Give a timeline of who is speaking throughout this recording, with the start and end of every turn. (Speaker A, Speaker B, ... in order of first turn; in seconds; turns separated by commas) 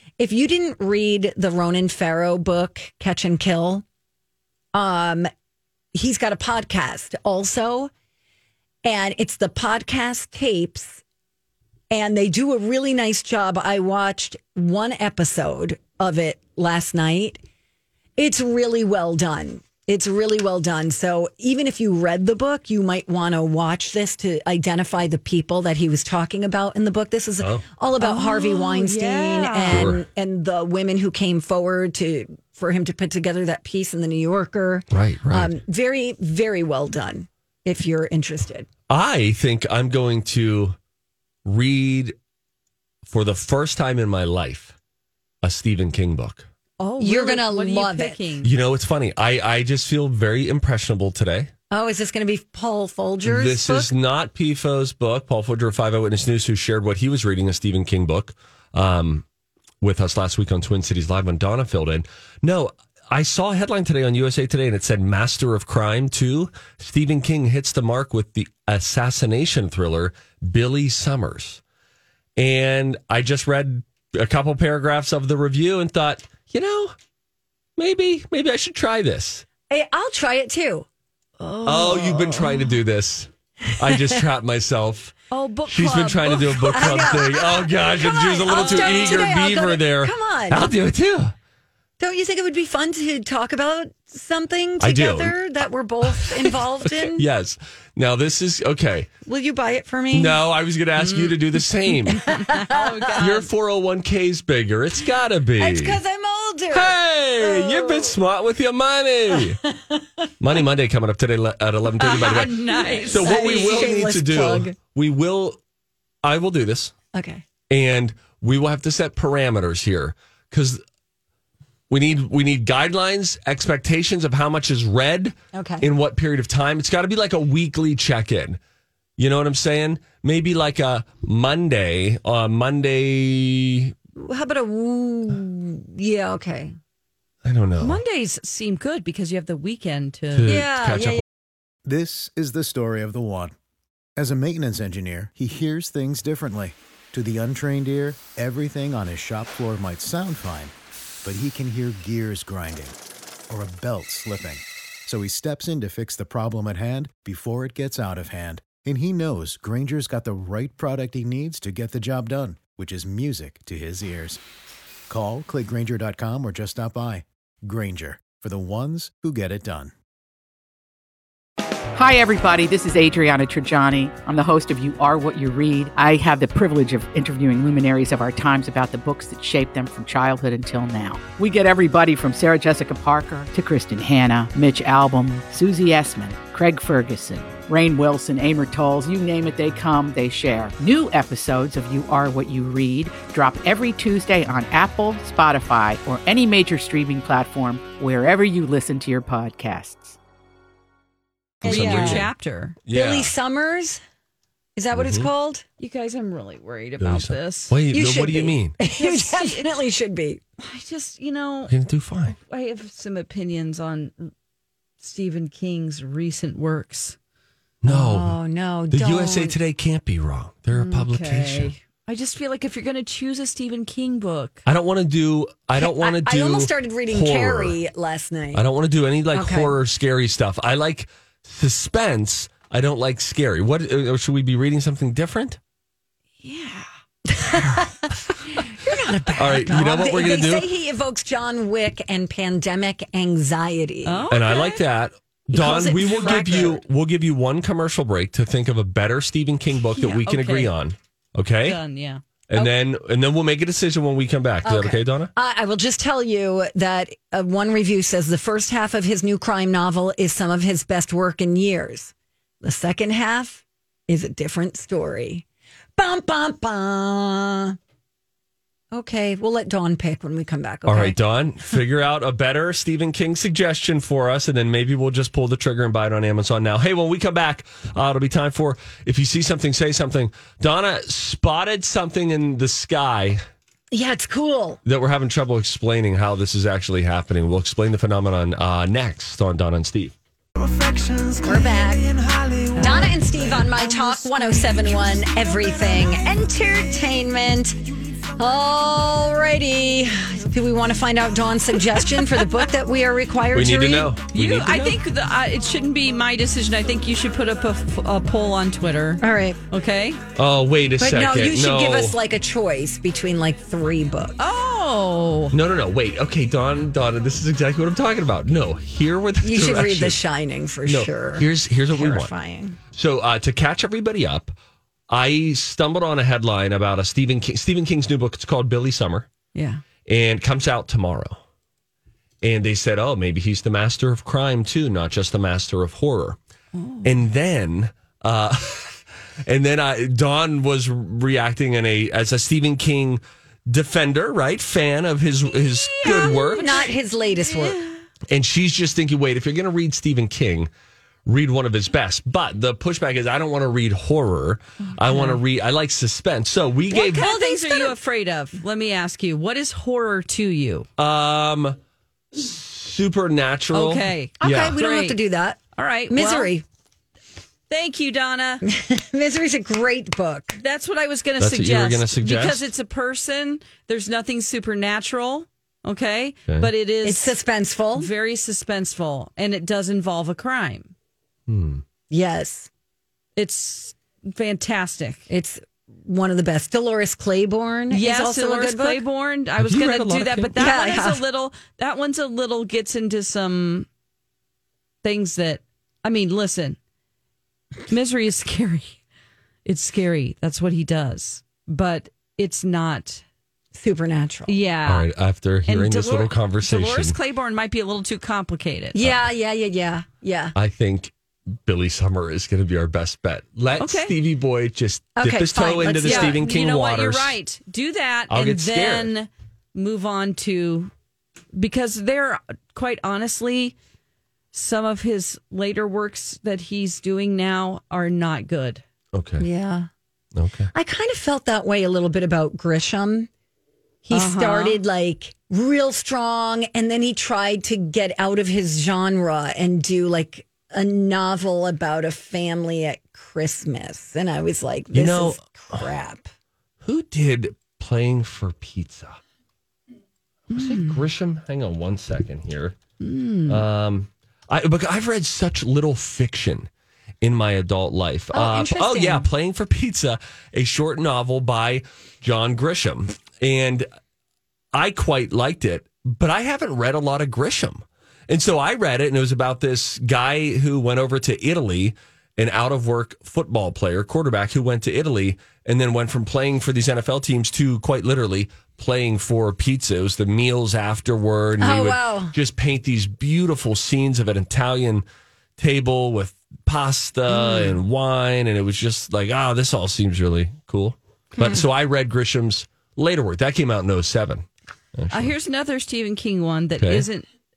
Speaker A: 0.2-3.8, Speaker A: 4.7-5.3, Speaker A: 5.9-7.9, Speaker A: 8.8-11.0, Speaker A: 11.9-17.4, Speaker A: 18.2-38.7, Speaker B: 27.4-27.7, Speaker C: 28.0-29.9, Speaker B: 29.7-30.1, Speaker B: 34.9-35.6, Speaker B: 38.9-40.8, Speaker B: 41.5-42.1, Speaker B: 43.0-44.8, Speaker B: 45.4-46.5, Speaker C: 46.8-48.5, Speaker A: 47.0-48.2, Speaker B: 48.4-51.5, Speaker A: 51.7-53.9, Speaker B: 53.2-59.2, Speaker B: 59.8-71.6, Speaker B: 72.4-77.0, Speaker B: 77.8-79.5, Speaker A: 79.7-80.9, Speaker A: 81.4-82.5, Speaker C: 81.5-82.4, Speaker B: 81.7-85.1, Speaker A: 83.9-84.2, Speaker C: 85.3-87.2, Speaker B: 85.7-91.3, Speaker A: 86.7-90.7, Speaker C: 88.5-89.3, Speaker A: 92.0-97.2, Speaker B: 94.8-95.4, Speaker B: 96.1-99.1, Speaker A: 99.2-100.4, Speaker B: 100.1-102.4, Speaker C: 101.0-103.5, Speaker A: 102.2-103.3, Speaker B: 103.2-106.0, Speaker A: 105.6-108.2, Speaker B: 106.7-109.6, Speaker A: 109.3-110.3, Speaker B: 110.4-115.6, Speaker C: 112.0-113.9, Speaker A: 112.7-114.8, Speaker B: 116.2-116.9, Speaker A: 117.1-117.4, Speaker B: 117.7-120.8, Speaker B: 121.9-128.6, Speaker A: 125.5-125.9, Speaker B: 129.2-133.9, Speaker A: 134.2-136.8, Speaker B: 137.4-138.0, Speaker C: 137.8-140.6, Speaker B: 140.3-141.2, Speaker A: 140.5-141.2, Speaker D: 141.8-143.6, Speaker D: 144.2-153.0, Speaker D: 153.5-164.4, Speaker D: 165.1-169.9, Speaker E: 171.9-200.2, Speaker B: 201.6-202.3, Speaker A: 201.6-202.3, Speaker C: 201.6-202.8, Speaker B: 202.9-203.3, Speaker A: 202.9-204.0, Speaker A: 204.8-205.6, Speaker B: 204.9-205.3, Speaker C: 205.8-207.8, Speaker B: 207.0-208.8, Speaker A: 207.9-210.4, Speaker C: 209.0-209.7, Speaker C: 210.6-211.7, Speaker B: 211.7-212.4, Speaker C: 212.5-214.3, Speaker C: 215.0-217.2, Speaker B: 217.8-218.4, Speaker A: 217.9-219.6, Speaker B: 218.9-221.8, Speaker C: 220.7-224.6, Speaker B: 224.7-227.8, Speaker A: 225.8-228.6, Speaker B: 228.5-235.6, Speaker A: 229.3-229.7, Speaker C: 236.4-236.9, Speaker A: 237.3-244.3, Speaker B: 239.3-240.7, Speaker C: 244.1-244.8, Speaker B: 244.3-251.8, Speaker A: 245.5-246.8, Speaker C: 245.6-246.7, Speaker C: 249.9-250.7, Speaker C: 251.6-252.2, Speaker B: 252.5-255.3, Speaker A: 254.6-265.4, Speaker A: 266.0-267.8, Speaker A: 268.9-271.1, Speaker B: 270.9-283.4, Speaker A: 283.9-284.8, Speaker B: 284.9-290.1, Speaker A: 291.4-292.2, Speaker C: 292.7-293.2, Speaker A: 292.8-297.8, Speaker A: 298.4-304.1, Speaker B: 303.5-305.0, Speaker C: 304.3-310.2, Speaker A: 309.2-309.6, Speaker B: 310.4-312.2, Speaker A: 311.0-314.4, Speaker C: 314.4-315.6, Speaker B: 315.5-320.2, Speaker A: 319.4-322.8, Speaker B: 320.9-322.3, Speaker B: 322.9-324.6, Speaker B: 325.1-329.3, Speaker C: 329.5-329.8, Speaker B: 330.1-331.4, Speaker B: 332.4-336.4, Speaker C: 336.7-337.2, Speaker B: 337.0-346.8, Speaker C: 345.6-348.0, Speaker A: 346.0-347.8, Speaker B: 348.3-350.7, Speaker B: 351.3-357.3, Speaker C: 354.9-355.4, Speaker C: 356.9-360.9, Speaker A: 356.9-357.9, Speaker B: 361.0-361.8, Speaker B: 362.3-364.8, Speaker C: 363.7-365.2, Speaker A: 364.4-366.6, Speaker C: 365.8-366.5, Speaker C: 367.7-368.6, Speaker A: 368.6-370.6, Speaker C: 370.6-377.4, Speaker B: 371.4-372.7, Speaker A: 377.0-378.1, Speaker C: 377.9-380.9, Speaker B: 381.5-381.8, Speaker A: 382.1-382.7, Speaker C: 383.4-385.3, Speaker A: 385.3-389.0, Speaker C: 387.9-393.9, Speaker B: 389.6-390.7, Speaker A: 390.6-391.2, Speaker C: 395.0-396.8, Speaker C: 397.9-399.0, Speaker C: 399.6-403.2, Speaker A: 403.7-404.6, Speaker C: 404.5-405.1, Speaker B: 404.9-407.2, Speaker C: 405.7-409.0, Speaker A: 408.9-410.6, Speaker B: 409.0-409.3, Speaker B: 410.6-417.4, Speaker C: 413.8-414.1, Speaker A: 415.2-416.4, Speaker C: 416.0-420.9, Speaker B: 418.3-419.1, Speaker C: 421.5-423.8, Speaker C: 424.5-428.8, Speaker B: 429.1-429.5, Speaker A: 429.4-429.9, Speaker B: 430.4-430.7, Speaker A: 430.7-433.3, Speaker A: 434.1-446.3, Speaker C: 434.1-434.8, Speaker B: 444.9-445.9, Speaker B: 446.8-449.2, Speaker C: 450.5-451.0, Speaker B: 450.5-452.8, Speaker C: 453.0-453.6, Speaker B: 453.5-456.7, Speaker B: 457.2-463.9, Speaker A: 458.3-459.3, Speaker B: 464.7-485.1, Speaker A: 481.6-482.4, Speaker B: 485.6-495.4, Speaker A: 487.4-487.7, Speaker C: 495.1-497.3, Speaker B: 496.8-497.1